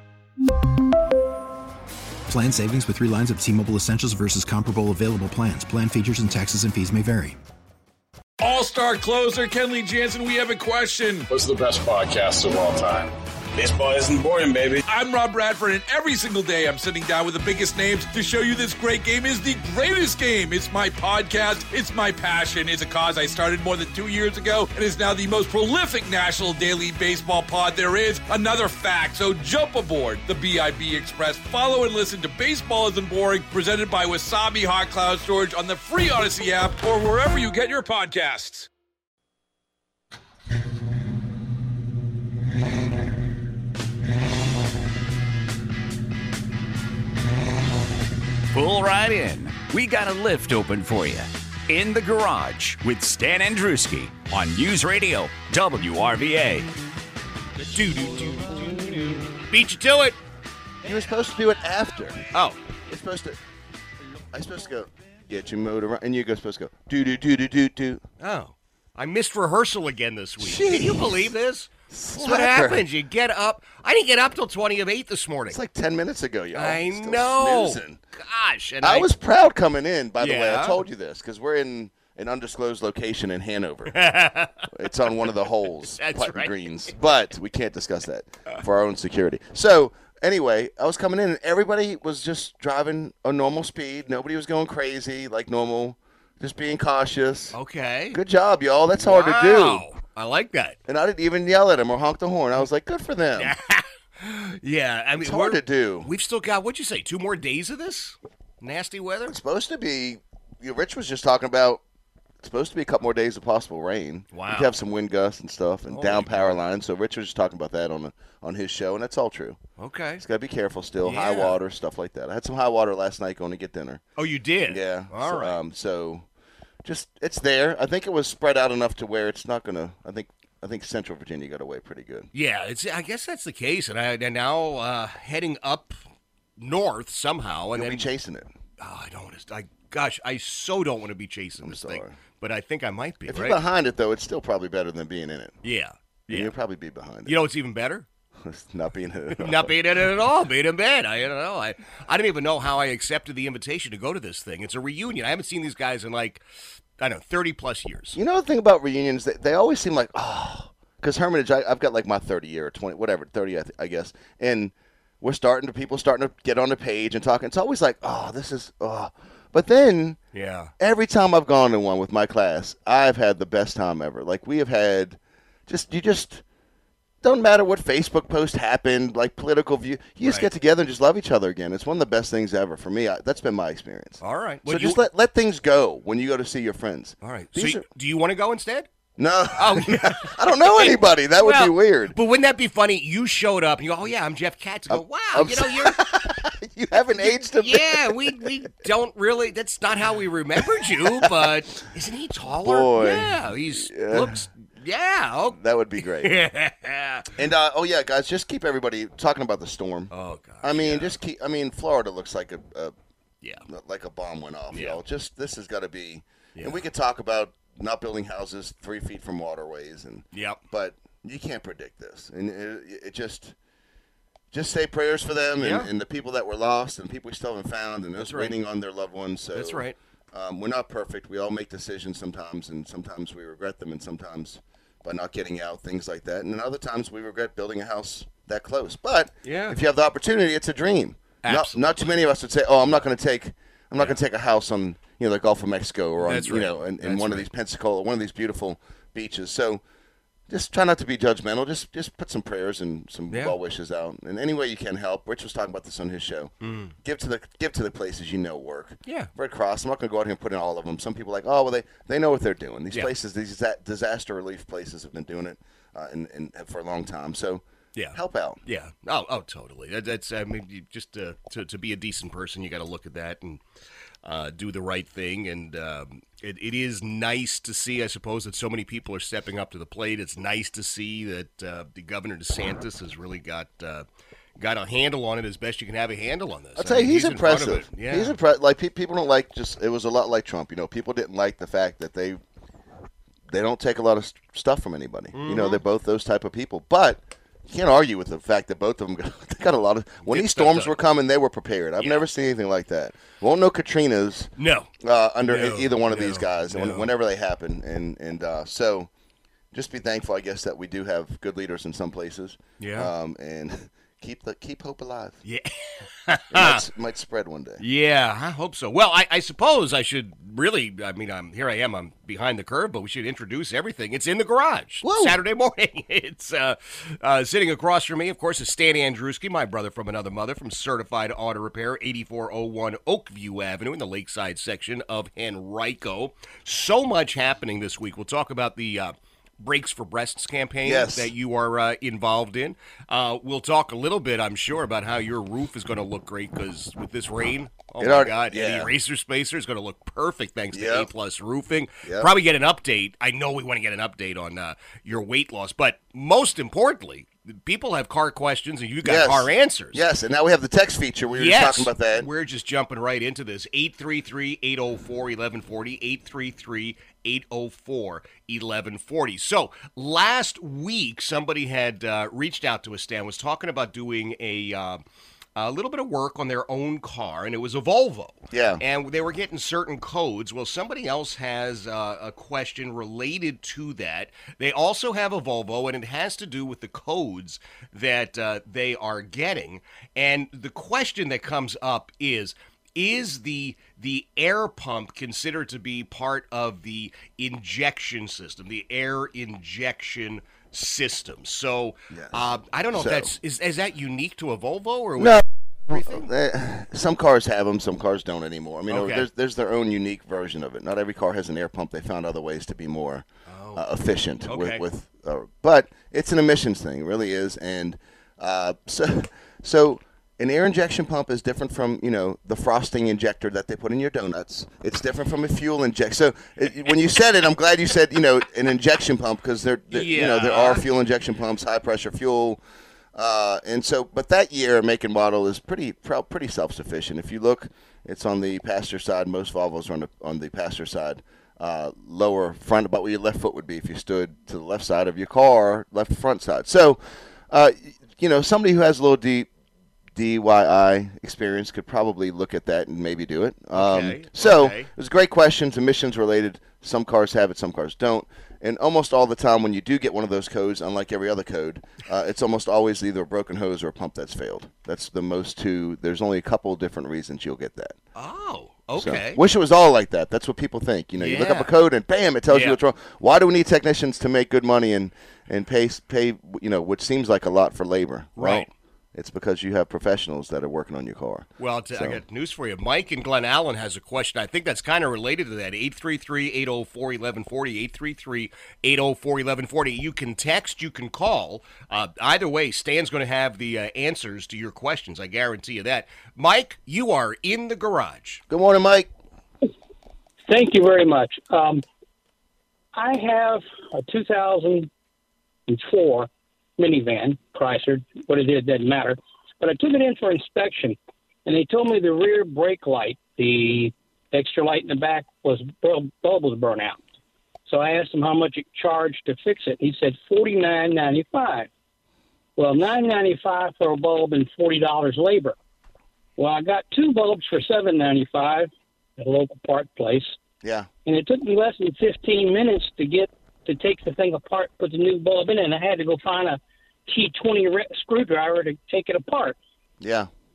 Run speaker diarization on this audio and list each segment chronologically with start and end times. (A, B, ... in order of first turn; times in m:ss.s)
0:02.3-0:07.4 A
0:08.4-0:11.3 B
0:11.3-0:14.8 C
0:14.8-0:38.7 B
0:48.5-0:56.7 D
0:57.6-1:00.2 E
1:00.8-1:02.2 F
1:02.9-1:03.4 F
1:04.3-1:08.0 F
1:08.2-1:15.6 E
1:10.4-1:11.3 F
1:11.9-1:12.8 F
1:15.5-1:18.0 F
1:16.5-1:19.1 E
1:18.8-1:24.0 F
1:20.2-1:20.8 E
1:23.9-1:24.7 E
1:24.7-1:37.6 F
1:25.2-1:26.7 E
1:37.5-1:38.2 E
1:38.1-1:39.8 F
1:39.0-1:40.8 E
1:40.8-1:43.5 F
1:43.4-1:49.4 E
1:45.2-1:46.1 F
1:49.3-1:51.8 F
1:52.4-1:59.6 F
1:54.3-1:54.7 E
1:55.9-1:56.6 E
1:59.8-2:00.2 E
2:00.2-2:04.0 F
2:01.0-2:01.6 E
2:04.2-2:05.6 E
2:04.7-2:06.3 F
2:06.8-2:12.3 F
2:12.3-2:16.0 E
2:16.6-2:18.1 E
2:17.7-2:18.5 F
2:18.8-2:23.6 E
2:21.6-2:22.2 F
2:23.3-2:25.6 F
2:25.6-2:26.5 E
2:26.3-2:27.4 F
2:27.2-2:28.1 E
2:28.4-2:29.7 F
2:29.3-2:36.4 E
2:37.0-2:38.2 E
2:38.1-2:50.2 F
2:50.3-2:50.7 E
2:50.8-2:56.4 F
2:57.2-3:07.8 F
3:00.2-3:00.5 E
3:04.2-3:05.0 E
3:07.2-3:08.9 E
3:09.2-3:12.2 F
3:09.6-3:16.0 E
3:14.9-3:18.5 F
3:17.2-3:27.3 E
3:20.8-3:21.5 F
3:22.6-3:24.3 F
3:25.5-3:26.3 F
3:27.4-3:30.1 F
3:30.1-3:31.2 E
3:30.6-3:32.9 F
3:33.7-3:43.5 F
3:34.7-3:35.0 E
3:36.6-3:36.8 E
3:40.3-3:40.6 E
3:44.5-4:09.8 F
3:45.6-3:45.9 E
3:48.2-3:48.6 E
3:49.5-3:50.0 E
3:59.4-3:59.8 E
4:01.4-4:02.1 E
4:06.2-4:07.5 E
4:10.5-4:27.6 F
4:13.3-4:13.6 E
4:16.6-4:16.9 E
4:27.9-4:33.6 E
4:28.1-4:28.6 F
4:34.2-4:44.0 E
4:44.6-4:48.4 E
4:46.8-4:52.4 F
4:53.5-5:09.1 F
4:55.3-4:55.8 E
5:00.2-5:01.0 E
5:02.0-5:02.2 E
5:04.6-5:04.9 E
5:05.4-5:07.1 E
5:09.7-5:15.4 F
5:12.8-5:13.1 E
5:15.4-5:16.8 E
5:16.5-5:17.8 F
5:17.8-6:00.0 E
5:25.0-5:25.4 F
5:40.8-5:41.3 F
5:48.0-5:48.9 F
5:50.7-5:51.1 F
5:52.0-5:52.3 F
5:59.0-6:02.3 F
6:01.3-6:15.0 E
6:15.6-6:46.2 E
6:18.5-6:18.8 F
6:42.1-6:43.3 F
6:45.2-7:12.6 F
6:48.9-6:49.3 E
6:53.5-6:53.8 E
6:54.4-6:54.8 E
7:09.9-7:10.8 E
7:13.1-7:29.5 F
7:30.1-7:48.0 F
7:33.7-7:34.9 E
7:48.1-7:49.4 E
7:49.0-8:02.2 F
7:51.1-7:51.7 E
7:52.5-7:52.8 E
7:58.4-7:58.7 E
8:01.6-8:18.4 E
8:18.5-8:19.1 F
8:20.5-8:21.8 G
8:22.9-8:24.9 G
8:25.7-8:37.0 G
8:37.7-8:41.7 G
8:42.6-8:45.5 G
8:46.4-8:50.4 G
8:50.6-8:50.9 F
8:51.0-8:59.6 G
9:00.0-9:00.3 F